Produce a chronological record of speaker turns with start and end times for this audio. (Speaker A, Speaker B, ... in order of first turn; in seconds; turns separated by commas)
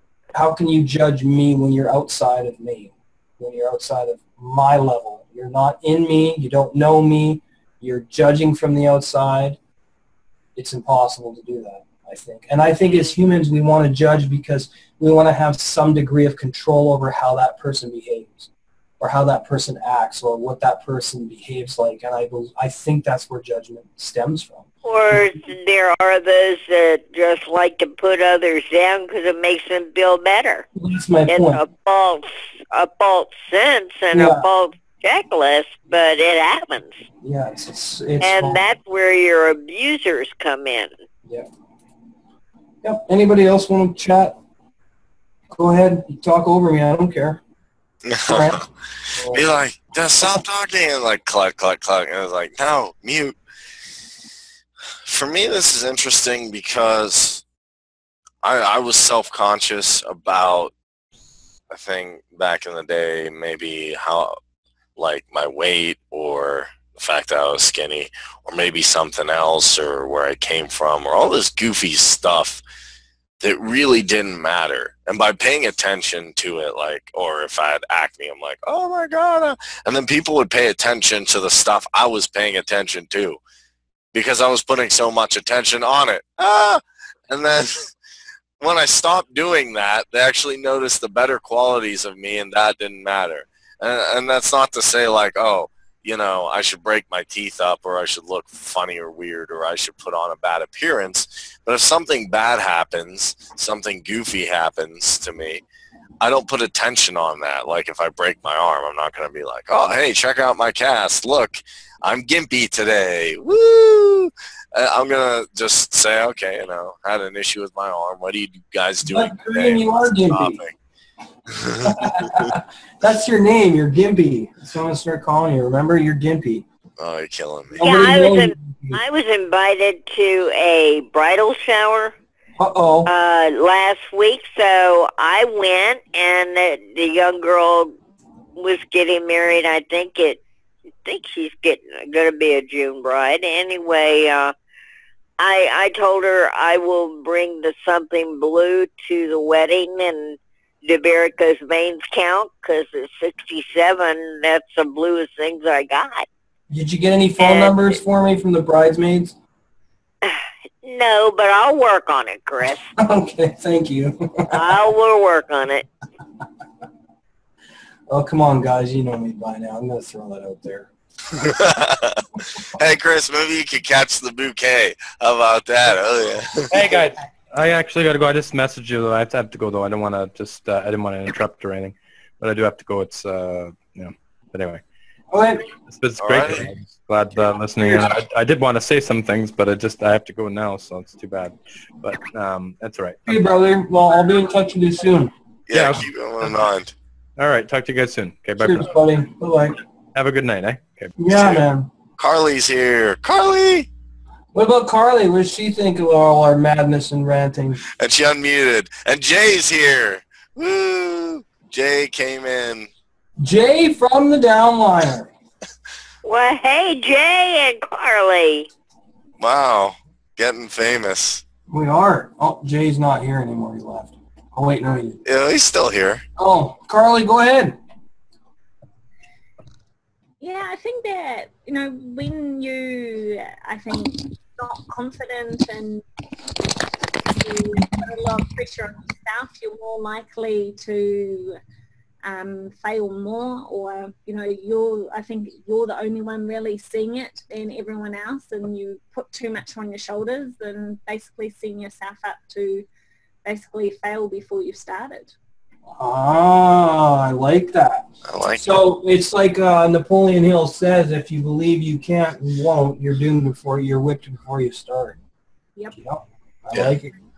Speaker A: 0.3-9.6, Speaker A: 10.5-18.5, Speaker A: 19.0-24.6, Speaker B: 24.8-30.6, Speaker A: 30.7-31.6, Speaker B: 31.3-37.0, Speaker A: 34.1-34.5, Speaker A: 37.2-38.6, Speaker B: 38.2-40.9, Speaker A: 42.8-44.4, Speaker A: 45.5-47.4, Speaker C: 48.0-48.6, Speaker A: 48.3-48.6, Speaker A: 49.1-49.4, Speaker C: 49.3-53.3, Speaker C: 55.1-57.4, Speaker C: 58.4-60.7, Speaker C: 61.7-64.3, Speaker C: 65.0-72.6, Speaker C: 73.4-83.4, Speaker C: 84.1-87.9, Speaker C: 88.6-105.6, Speaker C: 106.2-120.8, Speaker A: 119.0-120.6, Speaker C: 121.5-122.5, Speaker A: 121.8-126.7, Speaker C: 127.0-127.8, Speaker A: 127.7-129.0, Speaker B: 127.8-132.1, Speaker A: 132.6-133.1, Speaker B: 133.0-137.9, Speaker B: 138.6-140.4, Speaker B: 141.0-144.5, Speaker B: 145.4-156.2, Speaker A: 156.7-159.3, Speaker B: 157.4-158.0, Speaker B: 160.2-162.8, Speaker A: 163.0-164.5, Speaker B: 164.5-165.9, Speaker A: 168.1-170.9, Speaker C: 171.4-172.2, Speaker C: 172.7-176.9, Speaker D: 176.7-184.8, Speaker A: 185.3-185.6, Speaker D: 185.8-193.5, Speaker C: 186.2-186.7, Speaker A: 193.3-195.3, Speaker C: 195.7-196.9, Speaker D: 195.7-196.1, Speaker D: 197.4-199.0, Speaker A: 198.6-199.8, Speaker D: 200.1-201.2, Speaker A: 201.2-201.9, Speaker C: 201.3-201.6, Speaker C: 202.2-203.9, Speaker A: 204.5-207.8, Speaker C: 208.0-212.9, Speaker A: 213.4-215.3, Speaker B: 216.2-218.7, Speaker C: 219.4-221.4, Speaker A: 221.7-225.2, Speaker C: 225.2-226.2, Speaker A: 226.4-227.8, Speaker E: 230.4-236.0, Speaker E: 237.4-241.6, Speaker E: 242.2-252.8, Speaker E: 253.4-255.3, Speaker A: 255.9-265.2, Speaker C: 258.2-258.8, Speaker A: 265.9-267.1